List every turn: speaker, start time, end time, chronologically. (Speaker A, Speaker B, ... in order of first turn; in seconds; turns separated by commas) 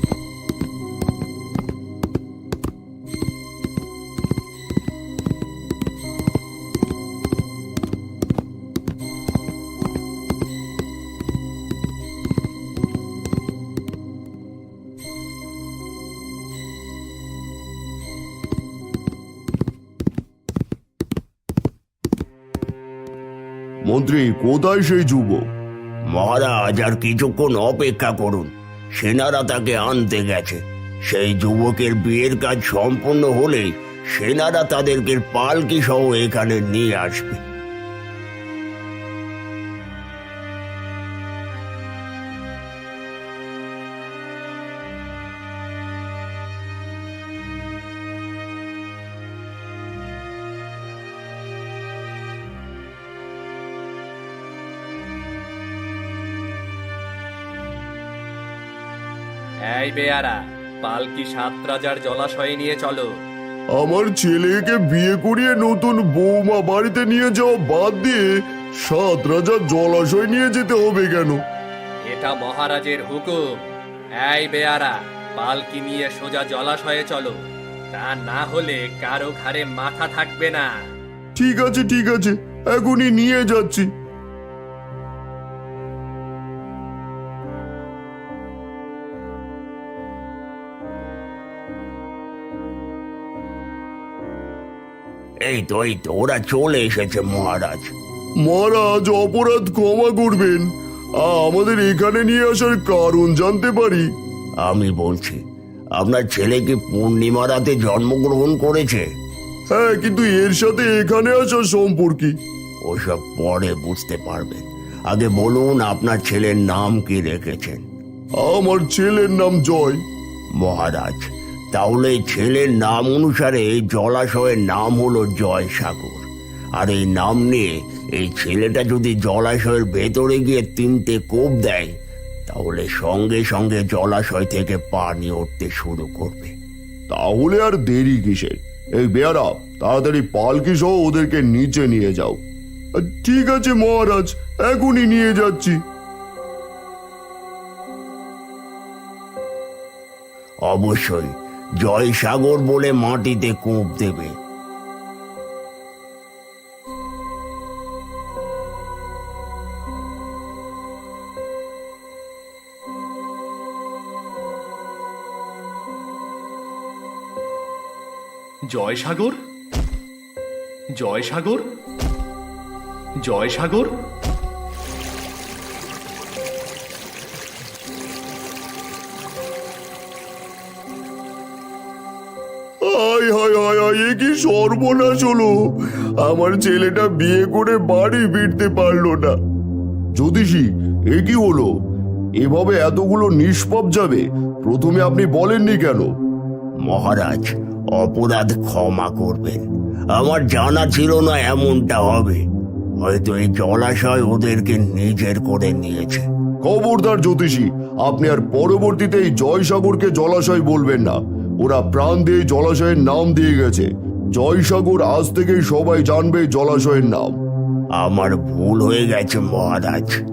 Speaker A: 23.9-25.4, Speaker B: 26.1-37.4, Speaker C: 59.7-63.0, Speaker A: 63.8-68.3, Speaker A: 68.8-71.4, Speaker C: 72.1-73.4, Speaker C: 74.3-77.3, Speaker C: 78.0-80.7, Speaker A: 81.4-83.9, Speaker B: 95.4-97.9, Speaker A: 98.4-100.7, Speaker A: 101.2-104.0, Speaker B: 104.6-105.4, Speaker B: 106.0-109.1, Speaker A: 109.7-112.3, Speaker B: 112.8-117.8, Speaker A: 118.4-120.0, Speaker B: 120.6-126.3, Speaker B: 126.8-131.9, Speaker B: 132.5-136.5, Speaker A: 137.1-142.4, Speaker A: 143.0-145.8, Speaker B: 150.7-154.3, Speaker C: 168.7-169.4, Speaker C: 171.0-171.7, Speaker C: 173.2-173.9, Speaker A: 182.9-185.5, Speaker A: 186.2-189.3, Speaker A: 190.2-191.7, Speaker A: 192.4-196.1, Speaker B: 196.8-202.4, Speaker B: 203.0-206.3, Speaker A: 206.6-217.3, Speaker B: 218.0-220.2